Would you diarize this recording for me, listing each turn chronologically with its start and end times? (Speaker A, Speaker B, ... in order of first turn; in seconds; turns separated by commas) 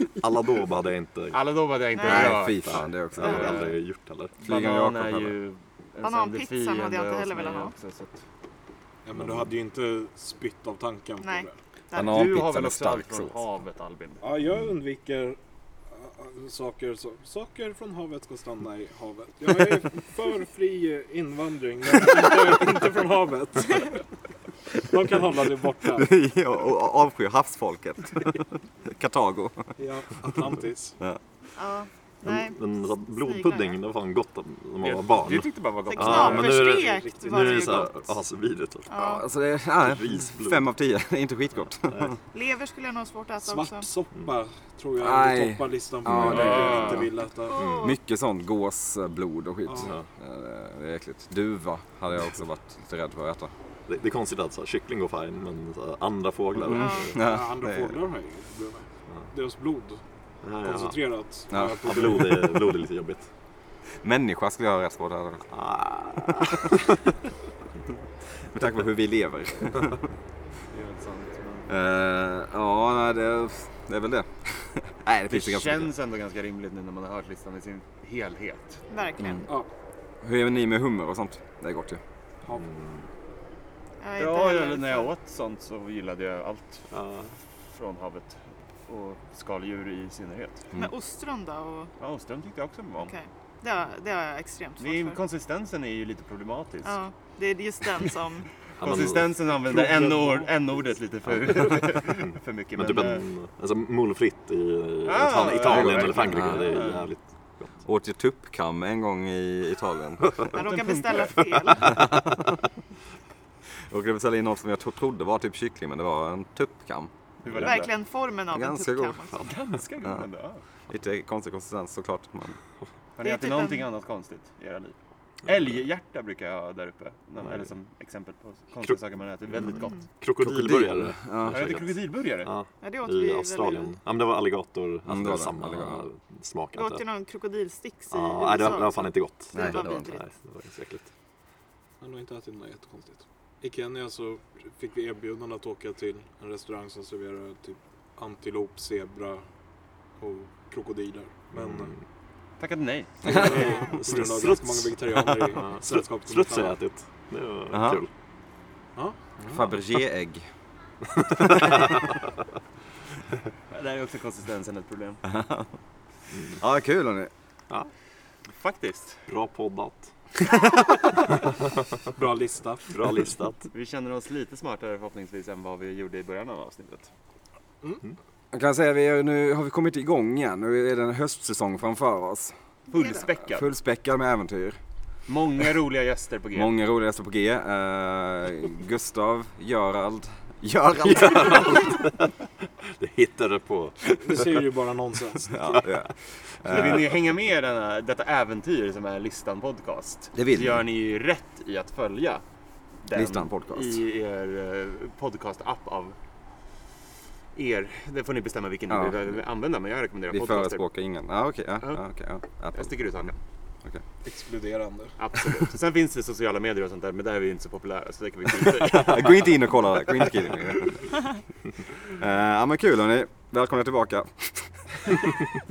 Speaker A: 0.1-1.4, Speaker B: 1.3-3.8, Speaker C: 1.9-2.4, Speaker D: 2.0-3.6, Speaker A: 2.0-4.3, Speaker C: 3.2-3.6, Speaker D: 4.4-5.3, Speaker B: 4.4-8.2, Speaker C: 6.0-7.7, Speaker E: 9.0-11.6, Speaker A: 9.2-9.4, Speaker C: 11.2-12.3, Speaker D: 11.9-13.4, Speaker B: 11.9-14.2, Speaker E: 14.2-15.4, Speaker E: 15.9-24.1, Speaker E: 24.7-26.1, Speaker D: 25.9-29.7, Speaker E: 29.8-31.0, Speaker C: 31.5-33.7, Speaker A: 32.2-38.9, Speaker B: 34.8-36.6, Speaker C: 35.9-38.0, Speaker E: 36.2-37.8, Speaker C: 38.9-39.2, Speaker D: 38.9-42.1, Speaker A: 39.8-40.6, Speaker C: 42.3-43.9, Speaker E: 43.4-47.6, Speaker D: 45.0-47.0, Speaker B: 46.3-47.1, Speaker C: 47.5-48.0, Speaker A: 47.5-48.0, Speaker D: 47.8-53.5, Speaker E: 49.7-49.9, Speaker A: 53.9-57.1, Speaker D: 56.6-58.0, Speaker C: 56.7-57.1, Speaker E: 57.1-60.0, Speaker A: 60.4-61.0, Speaker E: 60.6-62.5, Speaker D: 61.5-61.8, Speaker A: 61.8-63.3, Speaker D: 64.0-65.5, Speaker A: 65.5-66.8, Speaker D: 66.1-66.8, Speaker D: 68.5-70.0, Speaker E: 70.7-71.7, Speaker D: 71.7-75.9, Speaker B: 75.3-78.8, Speaker C: 78.9-79.5, Speaker D: 80.2-82.0, Speaker A: 82.5-83.0, Speaker C: 84.0-85.1, Speaker B: 84.2-86.9, Speaker A: 86.9-87.3, Speaker B: 87.7-90.7, Speaker C: 90.7-91.9, Speaker B: 92.0-93.1, Speaker C: 93.0-95.2, Speaker B: 94.8-97.0, Speaker C: 96.8-98.5, Speaker A: 98.8-99.3, Speaker B: 98.8-103.3, Speaker E: 99.6-100.6, Speaker A: 102.2-107.7, Speaker B: 105.0-107.1, Speaker D: 105.5-106.9, Speaker D: 107.8-110.7, Speaker C: 110.5-112.0, Speaker B: 110.5-111.4, Speaker D: 111.8-112.6, Speaker D: 113.9-117.1, Speaker B: 117.4-117.8, Speaker A: 117.4-117.9, Speaker C: 117.5-119.5, Speaker D: 118.5-119.2, Speaker B: 119.4-120.6, Speaker D: 120.9-122.6, Speaker B: 123.2-130.0, Speaker C: 123.2-123.8, Speaker A: 130.2-137.0, Speaker D: 130.4-131.8, Speaker B: 131.5-132.5, Speaker C: 132.8-133.9, Speaker D: 135.1-136.1, Speaker C: 136.8-140.2, Speaker A: 138.1-141.1, Speaker D: 139.5-140.1, Speaker E: 142.0-149.4, Speaker E: 150.2-151.9, Speaker A: 151.5-152.0, Speaker B: 152.6-153.5, Speaker E: 153.2-156.8, Speaker A: 153.3-158.1, Speaker D: 157.7-158.0, Speaker E: 158.9-159.7, Speaker D: 159.5-160.4, Speaker A: 161.2-161.8, Speaker D: 161.4-162.0, Speaker B: 163.7-165.2, Speaker D: 165.3-165.7, Speaker D: 166.5-167.3, Speaker B: 168.5-169.2, Speaker A: 169.3-170.1, Speaker E: 172.1-172.9, Speaker A: 172.9-173.7, Speaker B: 173.7-177.1, Speaker D: 178.5-182.5, Speaker B: 182.9-183.7, Speaker C: 182.9-183.2, Speaker D: 183.4-184.8, Speaker B: 185.3-186.7, Speaker D: 186.5-191.7, Speaker A: 191.0-194.5, Speaker E: 194.1-195.6, Speaker D: 195.5-197.0, Speaker A: 195.7-196.1, Speaker B: 196.7-202.4, Speaker D: 200.3-200.8, Speaker B: 203.0-206.2, Speaker D: 203.1-204.0, Speaker B: 207.5-210.8, Speaker D: 208.9-209.2, Speaker D: 210.3-213.3, Speaker B: 212.7-213.3, Speaker E: 214.2-215.2, Speaker B: 215.2-219.5, Speaker D: 218.8-221.0, Speaker D: 222.1-225.2